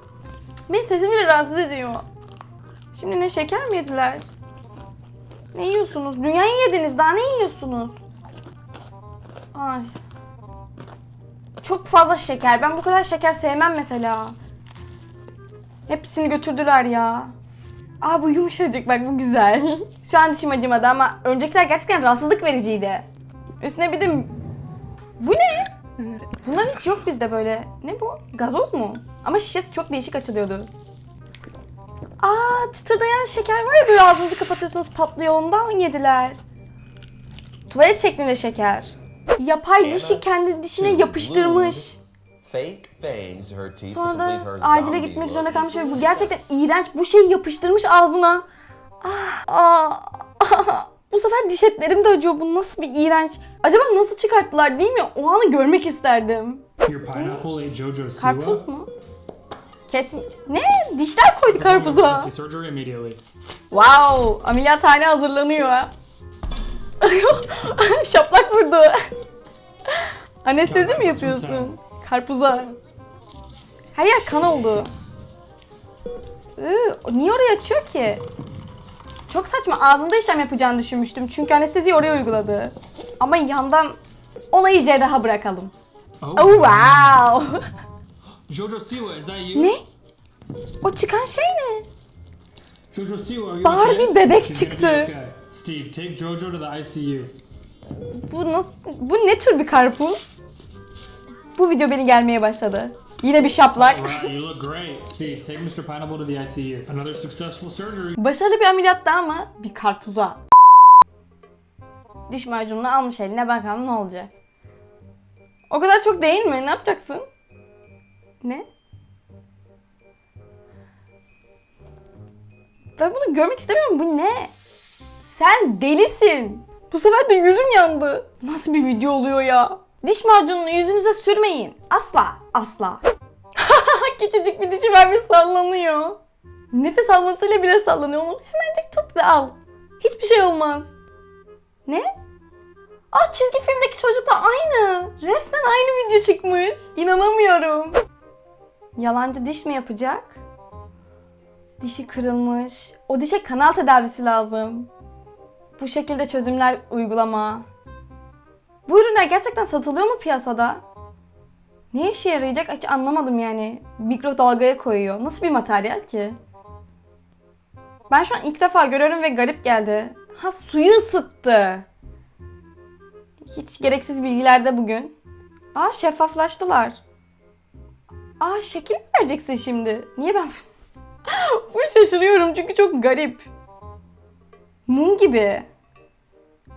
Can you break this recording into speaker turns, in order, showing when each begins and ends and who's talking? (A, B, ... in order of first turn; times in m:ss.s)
0:00.7-0:02.0 A
0:02.9-0:04.2 A
0:05.5-0:08.0 A
0:09.5-0:10.0 A
0:11.6-0:14.3 A
0:15.9-0:17.3 A
0:18.0-0:23.1 A
0:23.6-0:24.3 A
0:25.2-0:25.7 A
0:26.3-0:30.7 A
0:32.2-0:36.4 A
0:37.7-0:42.0 A
0:39.8-0:41.9 B
0:42.4-0:46.2 B
0:43.9-0:48.4 A
0:49.0-0:57.4 A
0:56.8-0:58.6 C
0:58.2-0:58.9 A
0:59.9-1:02.3 A
1:01.3-1:03.2 C
1:03.7-1:05.9 A
1:07.0-1:09.0 A
1:09.9-1:12.8 A
1:10.6-1:11.7 C
1:13.9-1:14.9 A
1:16.6-1:18.2 A
1:19.3-1:24.0 A
1:24.5-1:25.7 A
1:26.2-1:27.3 C
1:26.4-1:27.6 A
1:28.5-1:29.8 C
1:29.6-1:29.8 A
1:30.8-1:31.9 A
1:32.9-1:37.4 C
1:33.6-1:35.1 A
1:38.2-1:40.2 A
1:41.6-1:44.3 A
1:43.8-1:48.2 C
1:48.2-1:50.4 A
1:52.3-1:54.3 A
1:55.7-1:57.2 A
2:03.0-2:04.5 A
2:05.3-2:13.0 A
2:13.6-2:16.2 A
2:16.7-2:20.9 A
2:23.1-2:28.0 A
2:29.0-2:30.4 A
2:31.8-2:34.9 A
2:35.8-2:37.7 A
2:38.9-2:40.8 A
2:41.9-2:46.4 A
2:48.1-2:51.9 A
2:53.5-2:55.1 A
2:55.7-2:57.0 A
2:58.4-3:00.6 A
3:01.3-3:03.4 A
3:04.9-3:05.7 A